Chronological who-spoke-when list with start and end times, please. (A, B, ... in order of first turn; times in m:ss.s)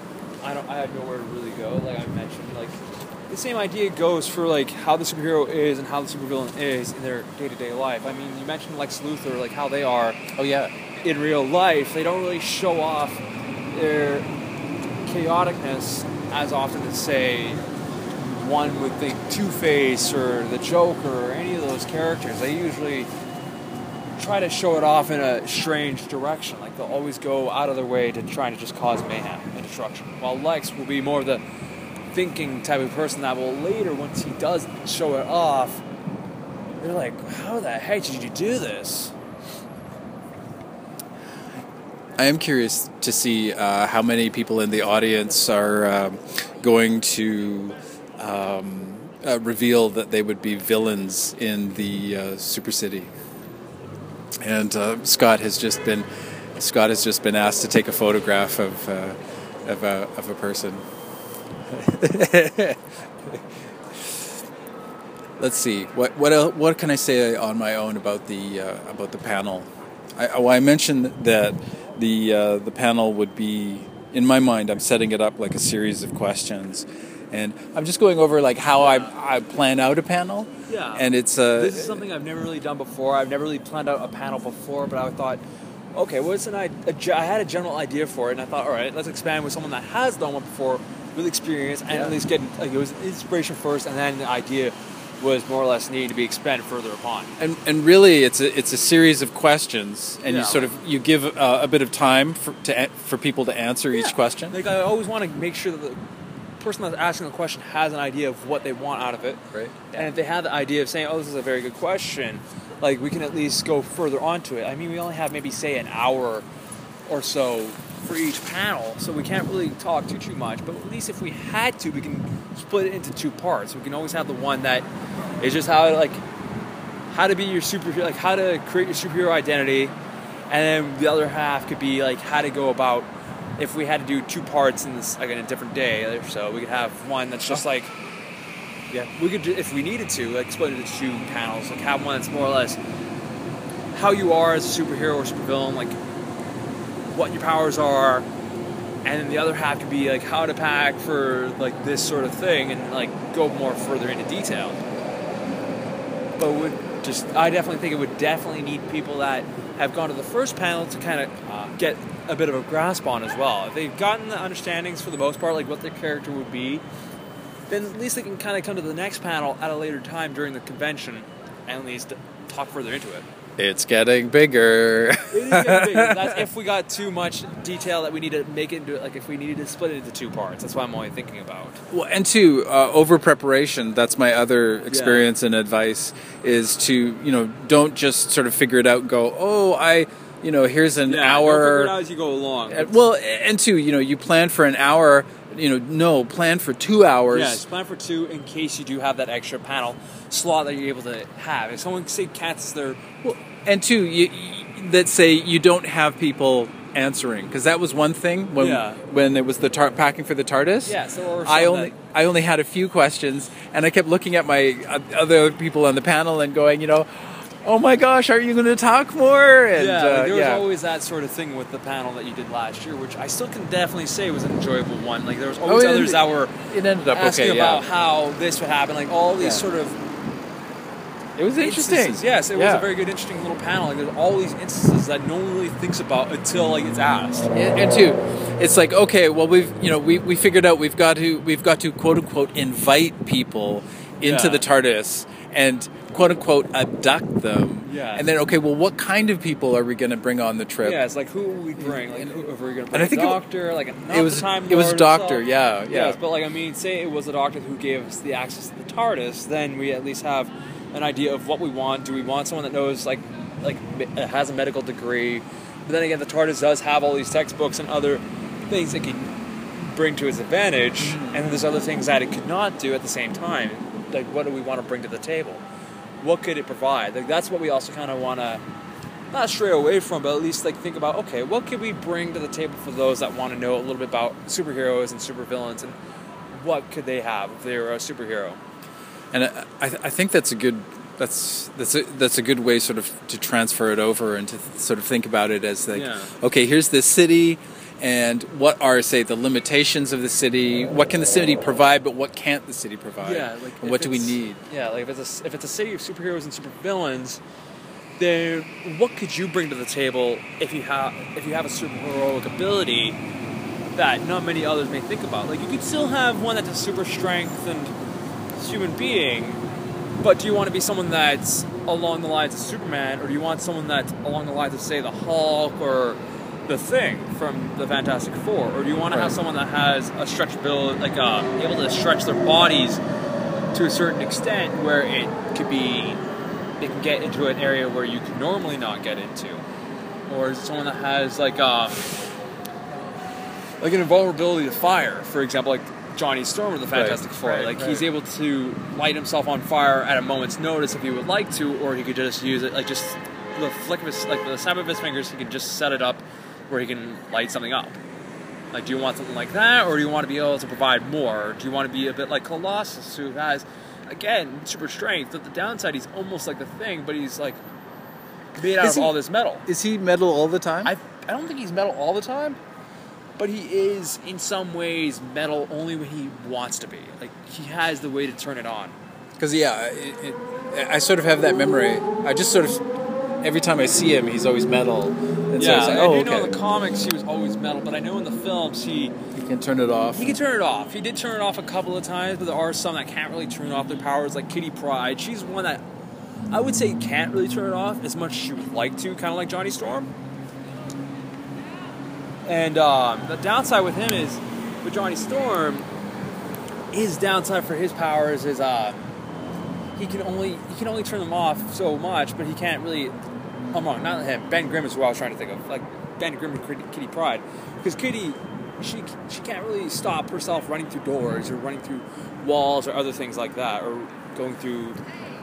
0:00.4-0:10.2 A
0:10.3-0:10.7 B
0:11.0-0:14.3 A
0:15.0-0:17.6 A
0:18.2-0:23.1 A
0:24.2-0:31.4 A
0:32.1-0:35.8 A
0:36.8-0:39.1 A
0:42.2-0:53.1 B
0:54.4-1:00.8 B
1:01.7-1:04.2 B
1:05.4-1:22.0 B
1:18.8-1:19.1 A
1:20.7-1:25.4 A
1:25.9-1:37.3 A
1:31.9-1:32.2 B
1:37.4-1:44.6 B
1:40.2-1:40.7 A
1:43.9-1:46.0 A
1:46.6-1:49.4 A
1:49.5-1:50.1 B
1:49.9-1:56.4 A
1:57.1-2:04.9 A
2:05.4-2:06.2 A
2:07.1-2:09.9 A
2:10.5-2:17.9 A
2:19.1-2:22.8 A
2:23.9-2:26.0 A
2:27.1-2:28.2 A
2:29.0-2:34.8 A
2:36.4-2:46.8 A
2:47.7-2:53.3 A
2:53.6-2:56.4 B
2:55.3-3:01.8 A
3:01.9-3:11.9 B
3:04.9-3:05.3 A
3:11.0-3:12.9 A
3:12.7-3:17.6 B
3:17.3-3:23.1 A
3:23.2-3:40.6 B
3:28.6-3:29.0 A
3:30.8-3:31.9 A
3:39.7-3:46.5 A
3:45.6-3:47.8 B
3:47.1-3:50.0 A
3:49.4-3:49.6 B
3:51.4-3:52.9 B
3:51.6-3:57.5 A
3:57.5-4:11.0 B
4:04.2-4:04.6 A
4:07.8-4:08.2 A
4:10.8-4:35.6 A
4:11.8-4:12.3 B
4:12.9-4:13.4 B
4:14.1-4:16.2 B
4:31.0-4:31.6 B
4:36.2-4:38.6 A
4:39.3-4:46.0 A
4:46.5-4:48.6 A
4:49.3-5:04.6 B
4:55.9-4:56.3 A
5:03.2-5:07.4 A
5:08.2-5:13.2 A
5:13.9-5:17.9 A
5:18.6-5:19.6 A
5:20.2-5:33.0 A
5:29.1-5:29.4 B
5:33.7-5:36.2 A
5:36.8-5:39.6 A
5:40.3-5:42.1 A
5:43.8-5:58.0 A
5:46.9-5:48.0 B
5:58.7-6:07.6 A
6:08.5-6:09.6 A
6:08.7-6:10.9 B
6:10.8-6:12.6 A
6:13.4-6:19.0 A
6:19.4-6:22.8 B
6:23.4-6:26.6 B
6:25.6-6:29.1 A
6:29.3-6:30.3 B
6:30.1-6:35.8 A
6:36.5-6:40.1 A
6:42.4-6:45.9 A
6:46.9-6:49.1 A
6:50.0-6:53.1 A
6:53.7-7:05.0 A